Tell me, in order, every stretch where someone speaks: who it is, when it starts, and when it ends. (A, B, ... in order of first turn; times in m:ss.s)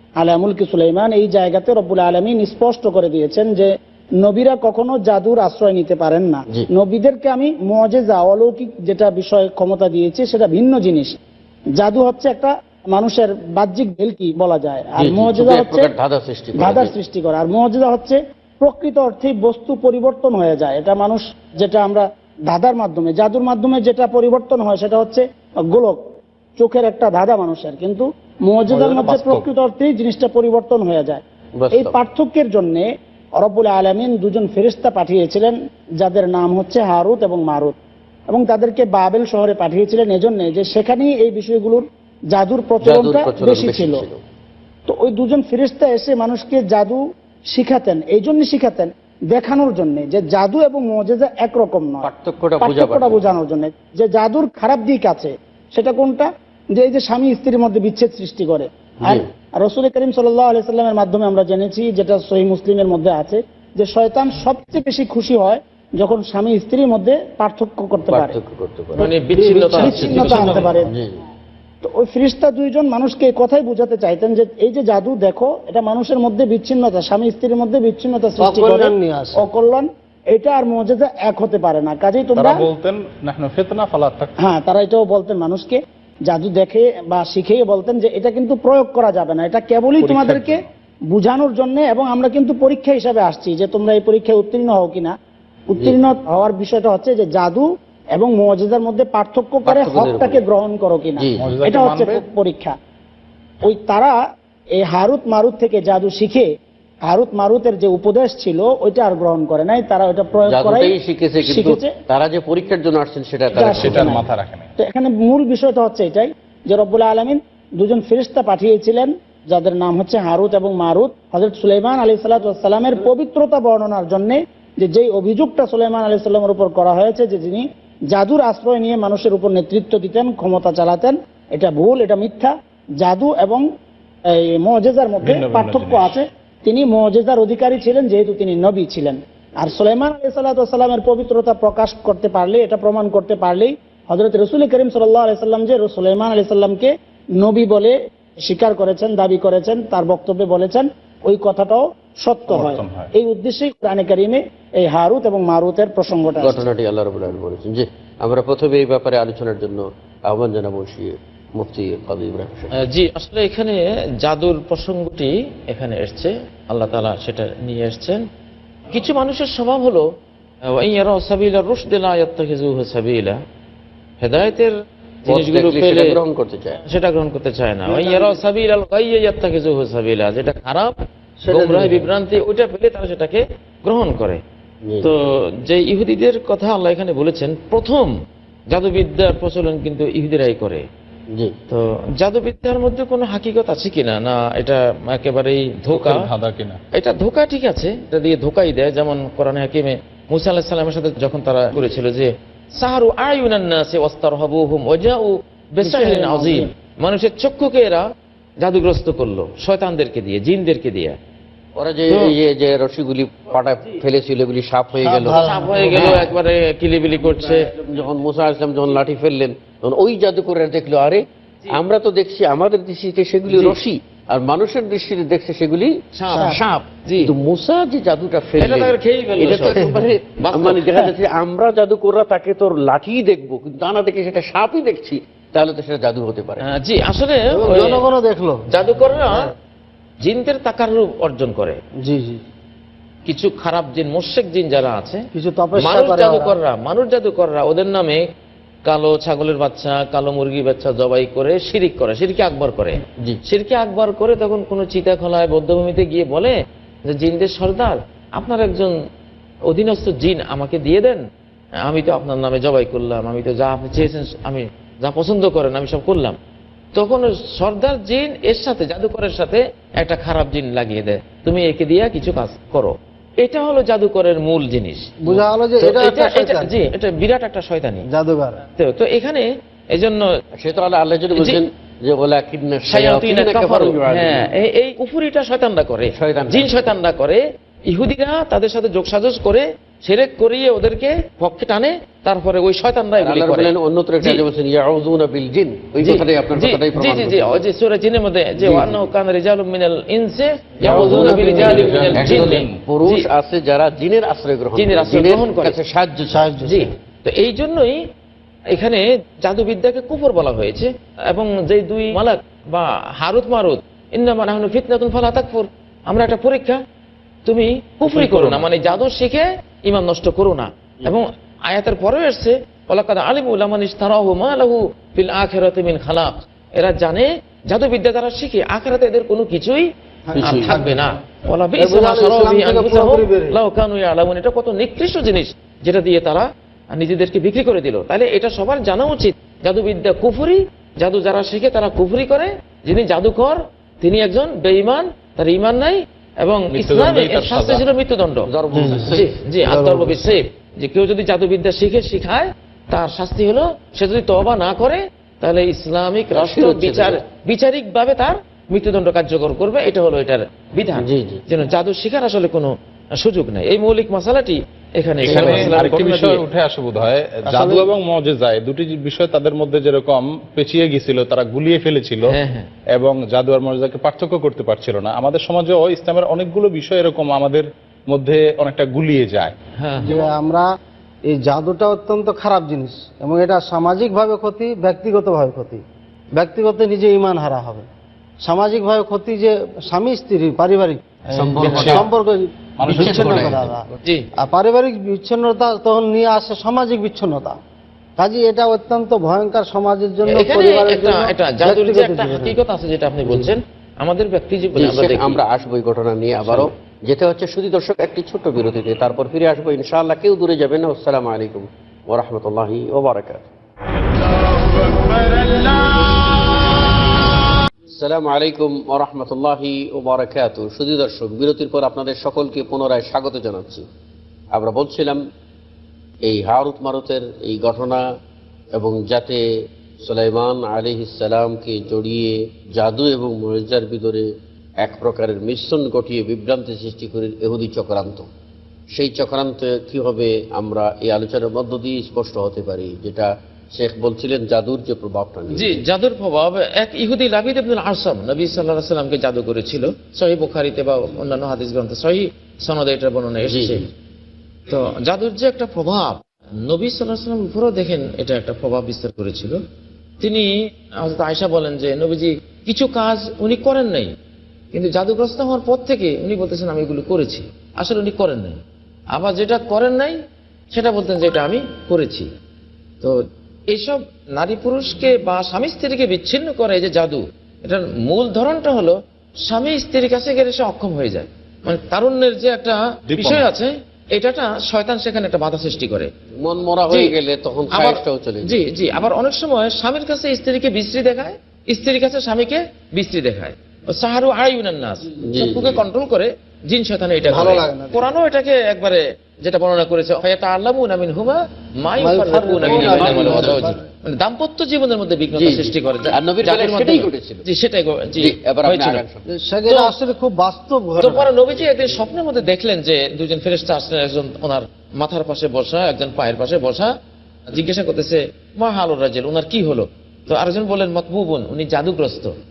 0:00.2-0:11.2 A
0:11.8-0:15.9 A
0:15.0-0:16.9 B
0:16.6-0:32.9 A
0:28.7-0:29.4 C
0:31.6-0:32.0 B
0:33.4-0:37.7 A
0:38.3-0:44.0 A
0:42.8-0:44.2 B
0:44.9-0:52.1 A
0:52.0-0:53.3 B
0:52.6-1:08.4 A
1:08.1-1:09.1 B
1:09.0-1:10.7 D
1:09.3-1:10.7 E
1:09.7-1:10.9 A
1:09.9-1:11.1 B
1:11.8-1:22.6 A
1:18.4-1:19.4 E
1:22.4-1:24.4 C
1:24.4-1:35.2 A
1:30.0-1:30.7 C
1:35.7-1:42.8 A
1:39.6-1:40.4 B
1:41.2-1:41.5 B
1:41.4-1:42.2 C
1:43.6-1:44.2 A
1:44.8-1:46.5 A
1:47.1-1:51.9 A
1:50.5-1:54.2 B
1:53.5-1:54.2 A
1:53.6-1:54.7 C
1:54.8-2:13.6 A
2:14.3-2:36.6 A
2:15.2-2:16.1 C
2:32.5-2:33.1 C
2:36.4-2:42.7 B
2:42.7-2:48.2 D
2:48.9-2:50.0 D
2:50.6-2:53.4 D
2:54.2-2:54.7 D
2:55.2-2:56.1 D
2:55.3-2:56.8 B
2:56.8-3:00.9 D
2:57.8-2:58.4 E
3:01.4-3:02.0 E
3:01.5-3:04.4 D
3:04.8-3:05.1 B
3:05.0-3:08.1 D
3:08.7-3:10.8 D
3:11.7-3:16.3 D
3:15.9-3:16.8 C
3:16.9-3:28.1 D
3:25.8-3:26.7 A
3:28.6-3:31.2 D
3:31.8-3:36.3 B
3:35.0-3:36.3 E
3:35.4-3:37.8 D
3:37.9-3:56.6 B
3:46.1-3:47.3 D
3:48.6-3:51.0 D
3:56.6-3:58.1 D
3:57.5-3:58.6 E
3:58.7-3:59.5 D
4:00.2-4:01.8 D
4:02.0-4:02.4 E
4:03.3-4:08.3 D
4:05.3-4:06.6 E
4:08.8-4:18.9 D
4:19.7-4:21.2 D
4:21.8-4:26.4 D
4:26.9-4:38.0 D
4:35.2-4:36.7 E
4:38.0-4:38.6 E
4:38.8-4:40.2 D
4:40.6-4:44.5 B
4:42.9-4:54.4 D
4:46.1-4:46.8 B
4:53.2-4:57.6 B
4:56.0-5:03.3 D
5:00.8-5:02.1 E
5:00.8-5:06.5 B
5:00.8-5:02.8 C
5:04.8-5:05.8 D
5:06.3-5:06.8 E
5:06.6-5:08.1 D
5:08.7-5:16.8 D
5:17.4-5:29.9 D
5:18.0-5:18.6 C
5:30.3-5:30.9 E
5:30.4-5:30.7 B
5:30.4-5:48.5 D
5:31.8-5:33.6 E
5:46.7-5:47.8 C
5:48.4-5:49.3 B
5:48.7-5:49.1 E
5:49.1-6:06.4 D
5:49.6-5:50.2 E
5:56.3-5:57.2 B
6:01.0-6:01.4 B
6:05.2-6:05.8 B
6:05.2-6:12.4 C
6:07.4-6:07.9 E
6:12.3-6:12.7 D
6:12.9-6:19.5 C
6:19.8-6:20.2 D
6:20.0-6:20.7 E
6:21.2-6:25.8 E
6:26.4-6:27.8 E
6:28.4-6:37.6 E
6:31.3-6:32.0 B
6:31.6-6:32.1 C
6:32.8-6:33.7 C
6:32.9-6:33.7 B
6:38.2-6:42.6 E
6:40.2-6:45.4 D
6:44.8-6:53.5 B
6:57.9-7:03.8 B
7:04.5-7:05.2 B
7:06.2-7:08.0 B
7:08.7-7:09.4 B
7:10.0-7:18.3 B
7:18.9-7:25.8 B
7:25.5-7:33.8 D
7:33.4-7:33.8 B
7:34.7-7:39.6 D
7:40.2-7:44.1 D
7:44.7-7:48.6 D
7:49.1-7:50.2 D
7:50.7-7:52.3 D
7:53.0-8:06.1 D
8:03.1-8:03.5 C
8:06.4-8:08.6 B
8:07.7-8:29.0 D
8:15.2-8:15.8 B
8:17.3-8:18.0 E
8:22.0-8:23.8 E
8:22.6-8:23.6 B
8:25.3-8:27.4 B
8:28.2-8:29.2 B
8:29.4-8:31.3 E
8:29.7-8:29.9 D
8:31.0-8:36.9 D
8:37.5-8:42.3 D